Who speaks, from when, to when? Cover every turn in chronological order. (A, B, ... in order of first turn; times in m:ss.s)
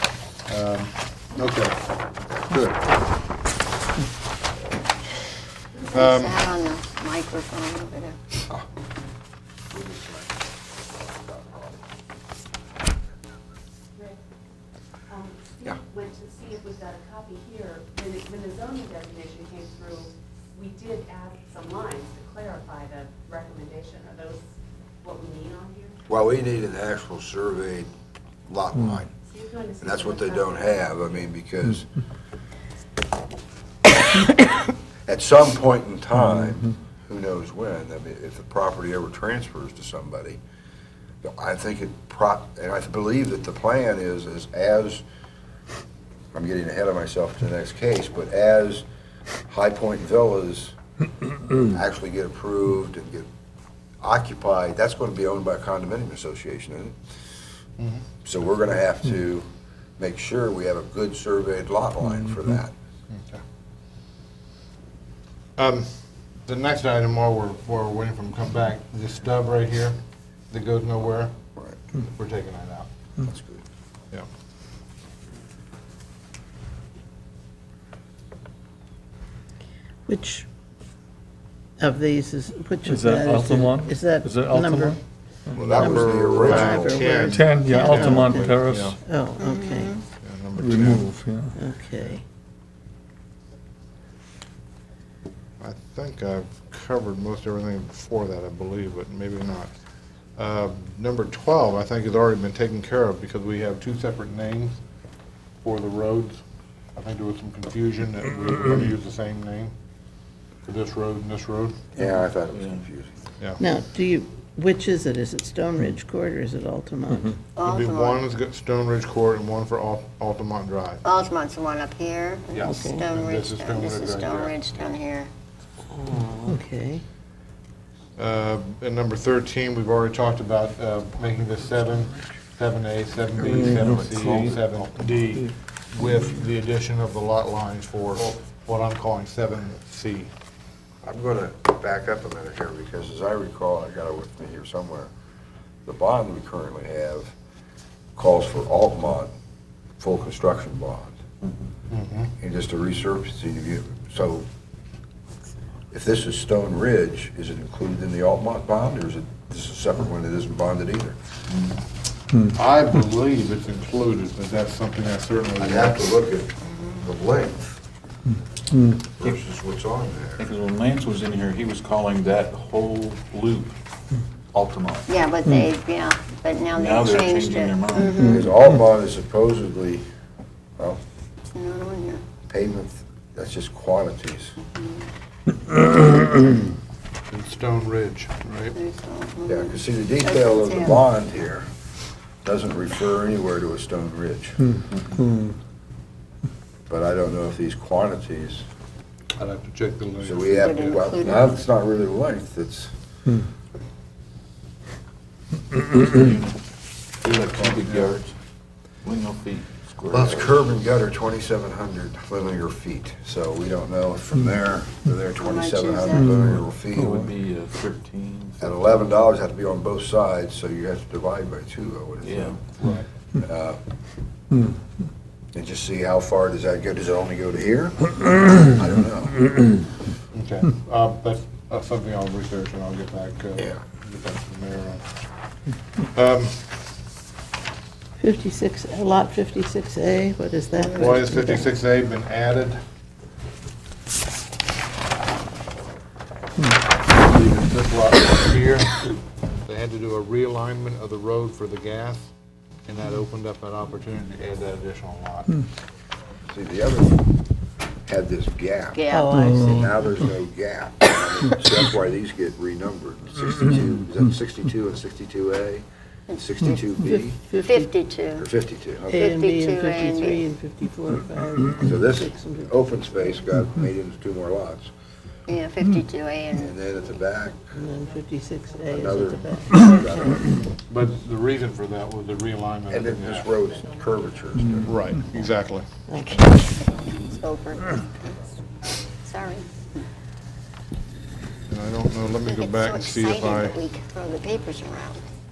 0:00.4-0:01.8 A
0:05.9-0:08.2 B
0:05.9-0:06.5 A
0:09.7-0:11.8 C
0:15.1-0:24.4 D
0:25.0-0:25.9 D
0:26.1-0:27.9 C
0:28.5-0:29.1 C
0:29.4-0:30.3 D
0:29.8-0:31.9 C
0:35.0-0:40.4 C
0:41.2-0:45.0 C
0:46.3-0:48.8 C
0:49.5-0:50.7 C
0:51.6-0:53.3 C
0:54.0-0:57.0 C
0:57.8-0:58.0 A
0:58.2-0:59.5 C
1:00.0-1:02.7 C
1:03.1-1:03.4 A
1:05.6-1:10.0 A
1:10.5-1:11.4 A
1:12.0-1:12.9 A
1:13.2-1:13.6 C
1:20.1-1:20.5 E
1:21.8-1:24.9 E
1:22.9-1:25.0 F
1:25.5-1:29.0 A
1:25.6-1:27.2 C
1:25.8-1:30.0 E
1:27.3-1:29.0 F
1:29.4-1:30.0 B
1:30.2-1:31.2 A
1:30.6-1:31.6 F
1:31.6-1:32.2 E
1:35.6-1:39.7 A
1:40.4-1:44.8 A
1:45.6-1:46.4 A
1:46.9-1:49.7 A
1:50.6-1:51.9 A
1:51.9-1:53.1 C
1:52.5-1:52.8 G
1:53.6-1:57.3 E
1:57.5-1:58.2 B
1:57.6-2:01.0 A
2:01.0-2:05.3 B
2:02.5-2:04.6 A
2:02.6-2:03.0 E
2:06.0-2:07.0 E
2:08.2-2:20.3 A
2:13.4-2:14.4 C
2:21.0-2:25.1 C
2:25.8-2:27.3 C
2:28.2-2:29.3 C
2:30.0-2:31.2 C
2:31.9-2:32.3 A
2:32.4-2:34.4 C
2:35.9-2:41.2 C
2:41.5-2:41.8 G
2:42.5-2:46.1 A
2:45.6-2:47.8 C
2:49.2-2:50.5 C
2:50.4-2:53.8 G
2:54.5-2:55.1 G
2:55.1-2:58.5 B
2:56.7-2:58.2 G
2:58.2-3:00.0 C
3:01.5-3:02.2 B
3:02.5-3:04.6 C
3:04.6-3:05.1 B
3:07.3-3:08.8 A
3:08.7-3:11.0 B
3:09.5-3:11.7 C
3:12.4-3:14.7 C
3:16.9-3:18.6 C
3:19.4-3:21.0 A
3:20.2-3:22.9 C
3:20.5-3:21.5 B
3:26.0-3:26.6 G
3:27.2-3:28.4 G
3:27.3-3:28.1 A
3:29.0-3:30.6 G
3:30.1-3:37.3 C
3:35.4-3:36.4 B
3:36.5-3:38.7 G
3:38.6-3:42.6 C
3:42.2-3:42.6 G
3:42.8-3:43.1 A
3:43.4-3:43.8 C
3:45.5-3:49.4 C
3:50.3-3:55.0 A
3:56.1-3:56.8 A
3:58.2-4:01.7 E
4:00.9-4:02.8 A
4:07.2-4:09.1 A
4:09.6-4:12.3 A
4:12.9-4:15.5 A
4:16.5-4:17.2 C
4:18.1-4:19.0 C
4:18.9-4:19.3 B
4:19.1-4:19.9 E
4:19.6-4:27.4 C
4:27.0-4:27.9 E
4:27.6-4:28.5 B
4:28.4-4:29.3 C
4:29.1-4:33.3 E
4:29.1-4:30.5 B
4:31.8-4:34.9 C
4:35.5-4:36.7 B
4:36.5-4:37.7 C
4:37.7-4:40.5 E
4:38.9-4:40.4 C
4:40.9-4:43.5 A
4:42.9-4:45.1 C
4:44.8-4:45.9 A
4:46.1-4:46.4 E
4:46.2-4:48.4 B
4:49.2-4:49.7 B
4:51.7-4:53.8 A
4:52.4-4:55.2 B